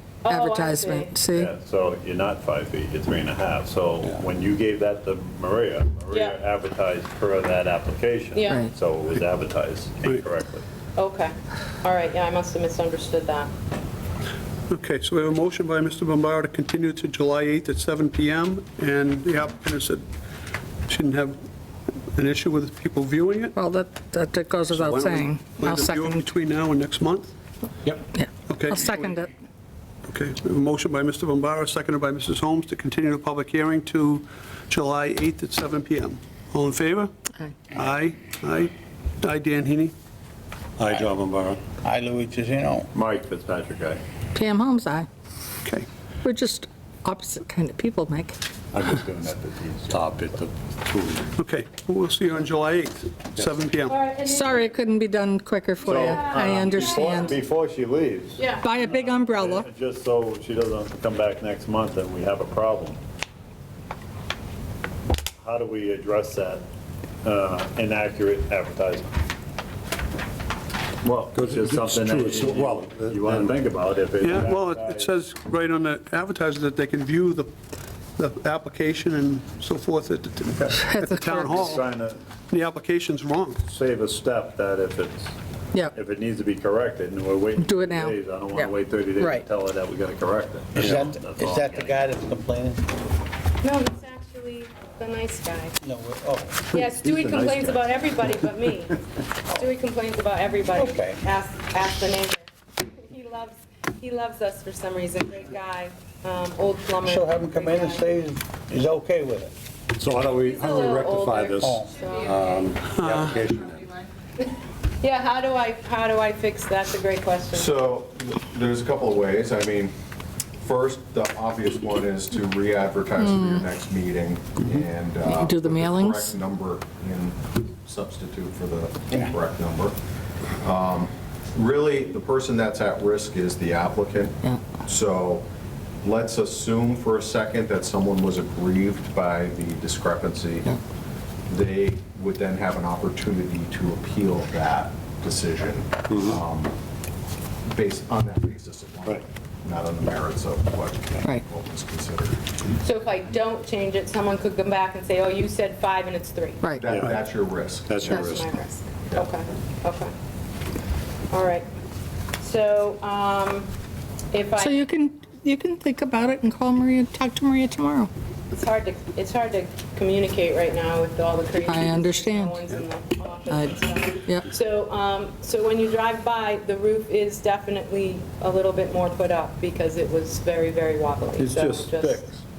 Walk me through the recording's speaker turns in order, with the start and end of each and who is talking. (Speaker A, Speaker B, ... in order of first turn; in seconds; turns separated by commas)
Speaker A: 0.2-1.1, Speaker B: 0.3-1.5, Speaker C: 1.3-10.6, Speaker A: 8.3-8.7, Speaker A: 10.9-13.5, Speaker D: 14.7-20.0, Speaker D: 20.9-21.4, Speaker D: 22.1-23.6, Speaker B: 23.5-26.2, Speaker D: 24.7-27.3, Speaker B: 28.1-29.3, Speaker D: 28.5-29.0, Speaker D: 30.1-37.1, Speaker D: 37.7-39.9, Speaker E: 40.8-41.6, Speaker F: 41.8-42.9, Speaker C: 42.9-44.0, Speaker B: 44.3-45.1, Speaker B: 46.2-48.4, Speaker C: 48.7-50.2, Speaker E: 49.9-51.3, Speaker D: 51.4-54.0, Speaker A: 53.8-54.8, Speaker B: 54.2-57.3, Speaker A: 55.8-57.2, Speaker C: 55.8-63.0, Speaker A: 58.4-58.7, Speaker B: 58.6-59.7, Speaker C: 65.4-66.6, Speaker C: 67.2-69.1, Speaker C: 71.0-75.1, Speaker E: 71.3-73.6, Speaker D: 74.2-77.5, Speaker D: 78.2-81.8, Speaker B: 80.8-81.6, Speaker C: 81.4-82.2, Speaker D: 82.5-83.6, Speaker C: 83.6-85.3, Speaker C: 85.9-92.1, Speaker B: 87.6-89.5, Speaker F: 90.7-92.8, Speaker A: 93.6-95.7, Speaker F: 95.8-96.8, Speaker A: 96.7-108.1, Speaker C: 97.2-97.8, Speaker F: 100.7-101.2, Speaker F: 107.0-109.5, Speaker E: 109.9-113.8, Speaker A: 110.3-112.4, Speaker F: 111.6-111.9, Speaker D: 112.9-113.5, Speaker A: 115.0-117.9, Speaker G: 117.5-119.9, Speaker G: 120.6-129.9, Speaker B: 123.2-123.6, Speaker B: 125.2-126.3, Speaker G: 130.6-135.5, Speaker G: 136.0-140.7, Speaker G: 141.5-146.7, Speaker E: 146.1-146.4, Speaker G: 147.7-152.4, Speaker A: 152.8-156.8, Speaker B: 156.6-156.9, Speaker G: 156.8-158.4, Speaker C: 157.9-158.3, Speaker A: 158.0-160.1, Speaker A: 161.3-161.7, Speaker A: 162.4-163.7, Speaker A: 164.3-164.9, Speaker B: 164.6-168.1, Speaker A: 168.5-182.2, Speaker B: 171.6-172.6, Speaker B: 173.5-174.5, Speaker C: 181.4-182.4